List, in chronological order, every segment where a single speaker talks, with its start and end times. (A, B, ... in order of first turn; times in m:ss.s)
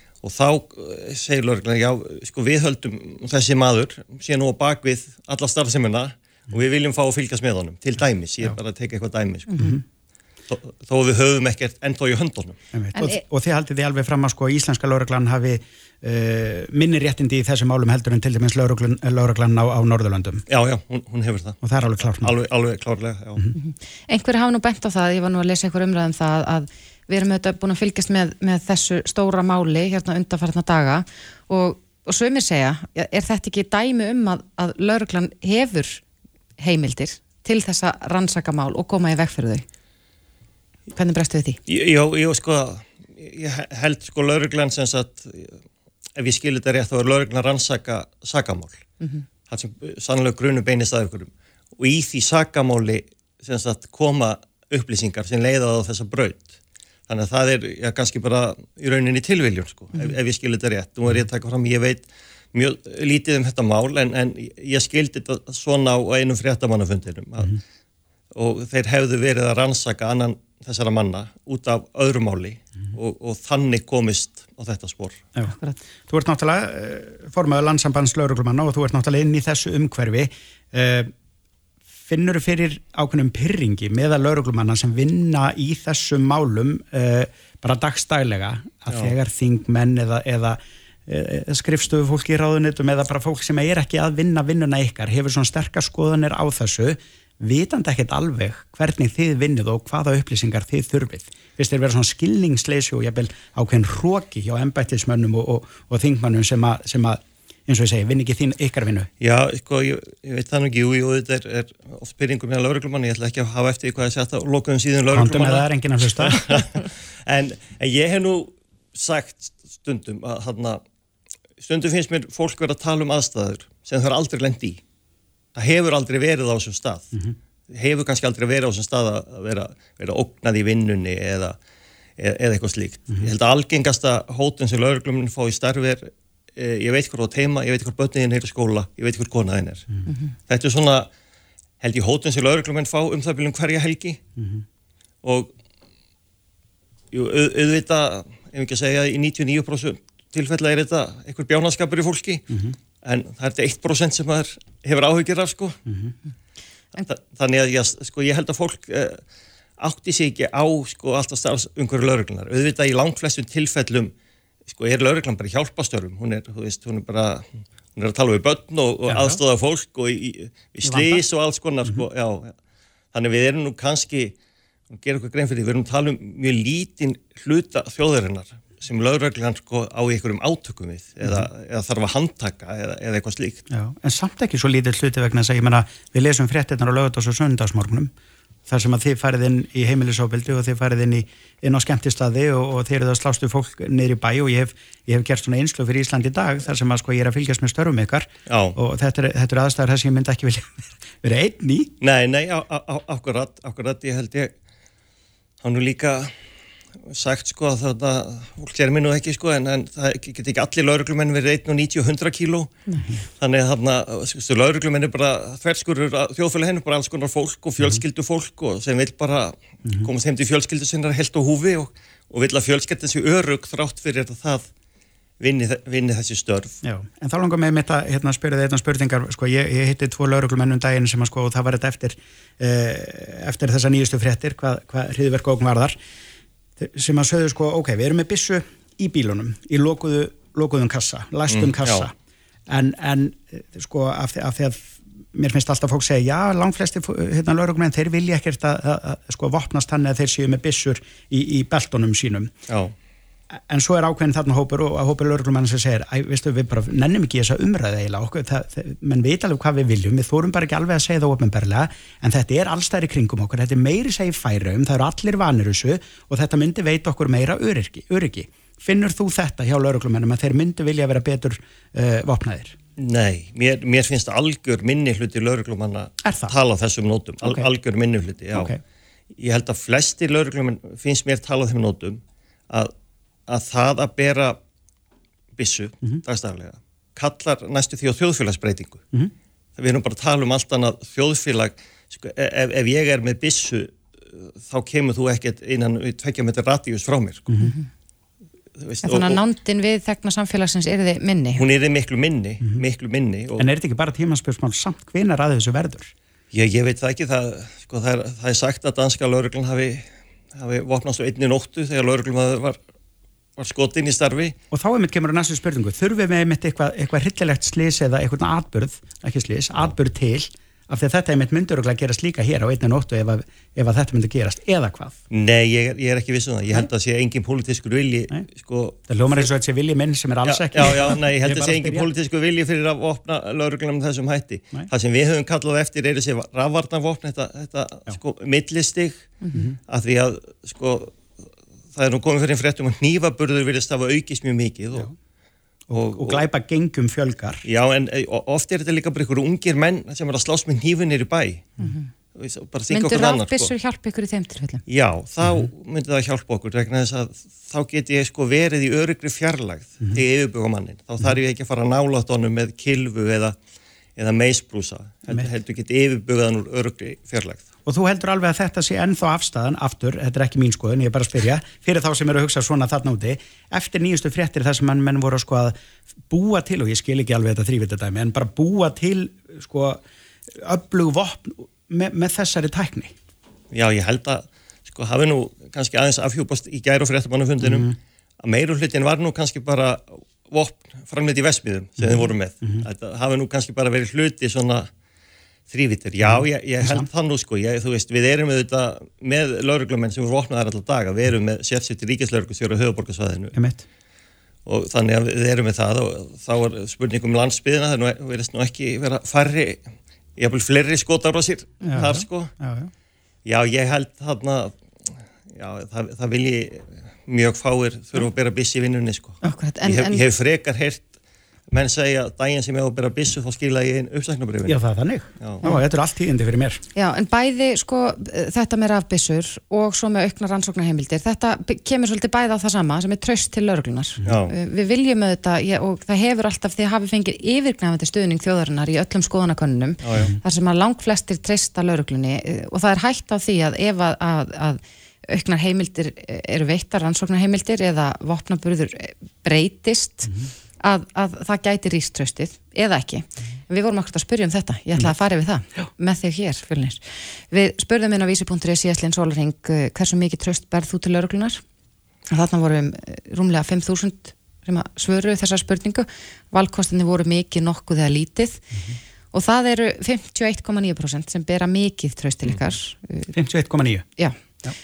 0:00.2-0:09.8 A
0:09.6-0:09.8 B
0:10.5-0:12.6 A
0:12.7-0:20.4 B
0:12.9-0:13.2 C
0:20.5-0:21.6 A
0:21.6-0:22.3 B
0:22.2-0:23.4 A
0:23.5-0:36.0 C
0:36.6-0:39.6 C
0:40.9-0:41.6 C
0:41.7-0:45.6 A
0:46.2-0:48.8 A
0:49.5-0:56.5 A
0:57.1-1:07.6 A
1:08.3-1:15.2 A
1:16.1-1:21.1 B
1:22.1-1:49.1 B
1:49.2-2:00.8 A
1:55.1-1:56.4 B
2:01.6-2:04.8 A
2:05.5-2:07.1 A
2:07.7-2:11.6 A
2:12.2-2:19.9 A
2:20.5-2:21.1 A
2:21.8-2:24.2 A
2:25.2-2:25.5 A
2:27.1-2:32.5 A
2:33.0-2:35.8 A
2:35.9-2:36.1 B
2:37.0-2:39.2 A
2:39.8-2:44.1 A
2:44.7-2:52.6 A
2:49.1-2:49.4 B
2:50.8-2:51.2 B
2:53.1-2:54.4 A
2:54.9-3:03.6 A
3:03.7-3:08.1 B
3:08.7-3:21.9 B
3:18.5-3:18.8 A
3:22.0-3:24.5 A
3:25.6-3:26.4 A
3:27.1-3:44.7 A
3:32.9-3:33.1 C
3:45.4-3:46.8 A
3:46.8-3:56.0 B
3:56.8-4:02.1 B
4:01.5-4:02.1 A
4:02.7-4:12.5 B
4:12.7-4:12.9 A
4:13.7-4:32.7 B
4:33.0-4:38.7 A
4:36.2-4:36.5 B
4:37.4-4:37.7 B
4:39.4-4:42.9 A
4:43.5-4:44.6 A
4:45.6-4:49.0 A
4:49.8-4:57.5 A
4:57.5-4:57.7 B
4:57.6-4:57.9 C
4:58.8-4:59.4 A
4:59.0-5:01.6 C
5:01.5-5:03.7 A
5:03.6-5:06.1 B
5:06.5-5:12.8 A
5:13.6-5:14.6 A
5:14.7-5:25.2 B
5:25.3-5:29.5 A
5:29.1-5:32.1 B
5:30.4-5:41.2 A
5:41.9-5:45.1 A
5:45.9-5:47.6 B
5:45.9-5:46.4 A
5:47.6-5:51.7 A
5:51.8-5:52.1 C
5:52.4-5:53.7 A
5:52.9-5:54.8 C
5:54.9-6:03.6 A
5:55.4-5:55.7 B
6:04.2-6:07.7 A
6:07.8-6:15.7 B
6:16.3-6:20.0 B
6:20.6-6:23.1 B
6:23.7-6:27.9 A
6:27.6-6:28.0 B
6:28.4-6:34.9 A
6:32.0-6:32.9 B
6:35.7-6:43.5 A
6:36.2-6:37.1 B
6:43.5-6:43.8 B
6:44.6-6:52.6 A
6:51.8-6:52.9 B
6:53.4-6:54.7 A
6:55.5-7:01.1 A
6:59.4-7:00.2 C
7:01.7-7:04.8 A
7:04.7-7:06.8 B
7:06.9-7:41.6 C
7:14.2-7:14.5 A
7:20.0-7:20.3 A
7:42.3-7:48.6 C
7:49.3-7:53.3 C
7:53.3-7:54.1 B
7:54.2-7:54.4 C